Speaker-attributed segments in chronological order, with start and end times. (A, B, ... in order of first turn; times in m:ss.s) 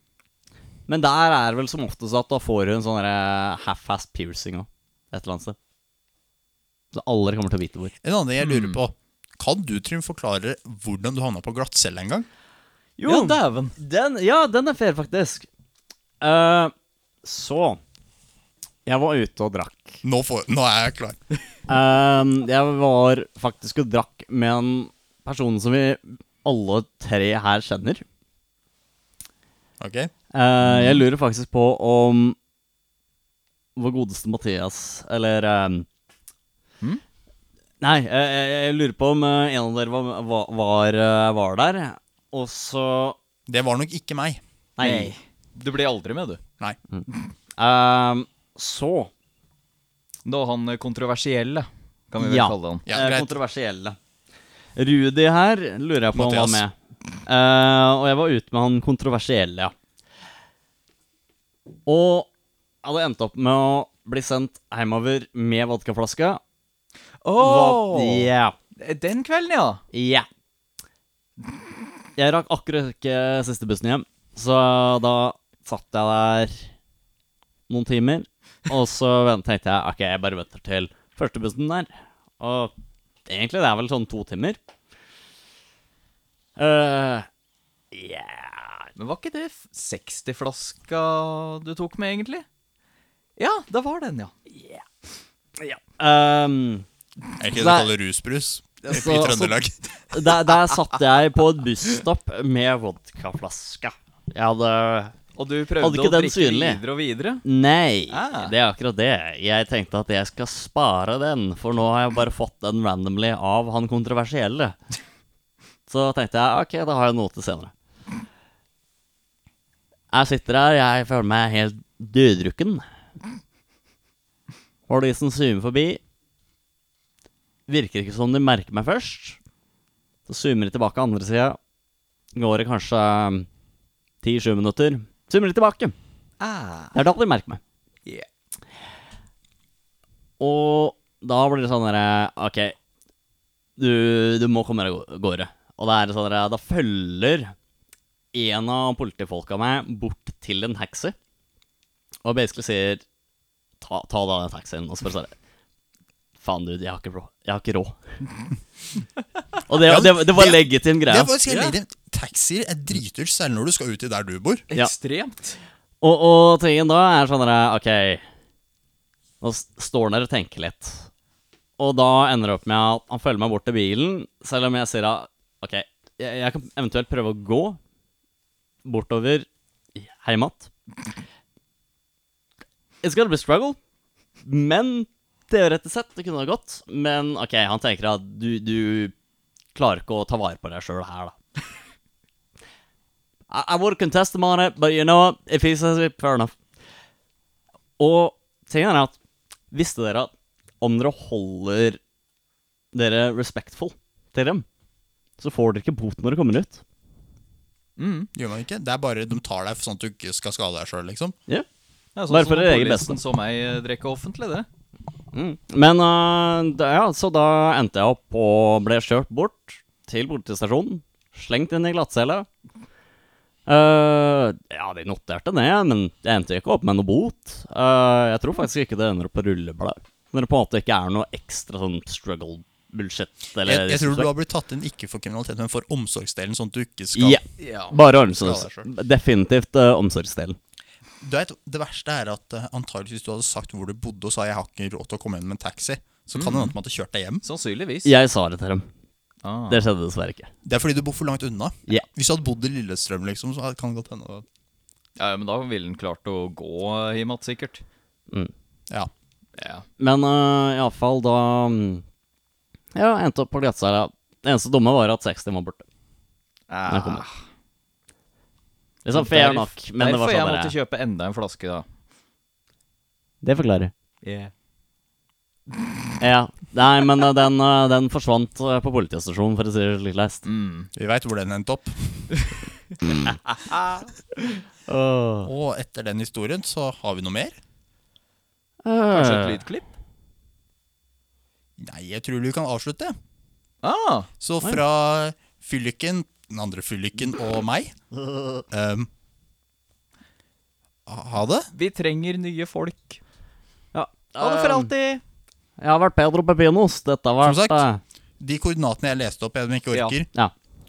0:00.9-0:05.6 A
0:06.9-0:07.9 A
0:08.0-0:12.3 B
0:08.4-0:08.8 C
0:13.0-0:15.5 A
0:13.0-0:13.7 C
0:16.2-0:16.7 A
0:17.2-0:17.8 A
0:18.8-0:20.0 A
0:20.0-0:21.2 B
0:21.7-0:28.0 A
0:29.8-0:30.1 B
0:30.3-0:32.4 A
0:33.8-0:35.9 A
0:37.8-0:43.2 A
0:43.5-0:44.4 B
0:44.8-0:45.1 A
0:44.8-0:46.4 C
0:47.6-0:49.1 A
0:50.2-0:52.9 C
0:52.2-0:54.0 A
0:52.9-0:53.3 B
0:54.8-0:56.7 A
0:56.1-0:56.6 B
0:57.2-0:59.7 A
1:01.8-1:02.3 A
1:02.8-1:06.4 A
1:07.2-1:09.8 C
1:07.4-1:08.5 A
1:09.9-1:10.3 A
1:12.2-1:16.7 A
1:17.7-1:21.9 A
1:22.4-1:22.7 A
1:23.3-1:24.6 A
1:26.6-1:27.3 A
1:27.9-1:28.9 A
1:29.0-1:32.4 C
1:33.4-1:34.3 C
1:34.5-1:34.8 A
1:35.6-1:36.8 A
1:37.4-1:39.7 B
1:37.5-1:37.9 A
1:38.8-1:39.5 A
1:40.1-1:45.1 A
1:45.4-1:47.4 C
1:45.8-1:46.8 A
1:47.4-1:54.8 A
1:48.1-1:48.5 C
1:55.9-1:57.7 A
2:00.1-2:02.8 A
2:04.9-2:06.0 A
2:07.7-2:09.4 A
2:10.3-2:11.6 A
2:12.4-2:13.5 A
2:14.2-2:15.9 A
2:16.4-2:16.9 C
2:16.9-2:17.6 A
2:20.4-2:22.8 A
2:23.8-2:27.5 A
2:28.3-2:31.1 A
2:32.2-2:33.0 A
2:33.8-2:35.3 A
2:36.4-2:38.0 A
2:39.7-2:41.3 A
2:39.7-2:44.6 B
2:41.4-2:41.8 C
2:44.7-2:45.6 C
2:46.0-2:48.2 A
2:49.4-2:51.1 A
2:51.8-2:57.8 A
2:58.8-3:00.7 A
3:03.0-3:03.8 A
3:04.4-3:09.1 A
3:09.7-3:11.4 A
3:13.5-3:16.5 A
3:18.0-3:19.2 A
3:19.7-3:22.0 A
3:22.9-3:24.6 A
3:25.4-3:26.8 A
3:28.0-3:28.3 C
3:28.3-3:31.4 B
3:32.2-3:34.7 C
3:32.3-3:33.2 A
3:35.3-3:42.5 A
3:43.7-3:54.3 A
3:53.6-3:57.4 B
3:57.1-4:00.6 A
3:57.6-3:58.0 C
3:58.4-3:58.9 B
4:01.2-4:07.4 B
4:06.3-4:06.7 C
4:07.4-4:08.1 C
4:08.0-4:08.8 A
4:09.4-4:09.8 C
4:09.7-4:10.5 A
4:10.6-4:14.4 B
4:15.2-4:17.8 C
4:19.6-4:19.8 C
4:20.0-4:22.0 A
4:22.9-4:25.8 A
4:26.7-4:27.4 C
4:26.9-4:27.2 A
4:29.0-4:30.7 A
4:29.1-4:31.8 C
4:33.4-4:33.9 A
4:34.2-4:34.5 C
4:36.2-4:40.4 A
4:40.4-4:40.9 C
4:40.9-4:42.3 B
4:43.5-4:44.1 C
4:44.9-4:45.5 A
4:45.4-4:47.6 B
4:48.8-4:49.6 A
4:49.1-4:49.9 C
4:51.8-4:53.1 B
4:53.8-4:54.3 C
4:54.4-4:57.9 B
4:58.2-4:58.6 A
4:58.7-4:59.1 B
5:01.1-5:01.7 B
5:01.7-5:03.2 C
5:03.9-5:04.9 A
5:04.4-5:05.2 C
5:05.8-5:08.0 A
5:07.4-5:07.8 B
5:08.4-5:10.3 B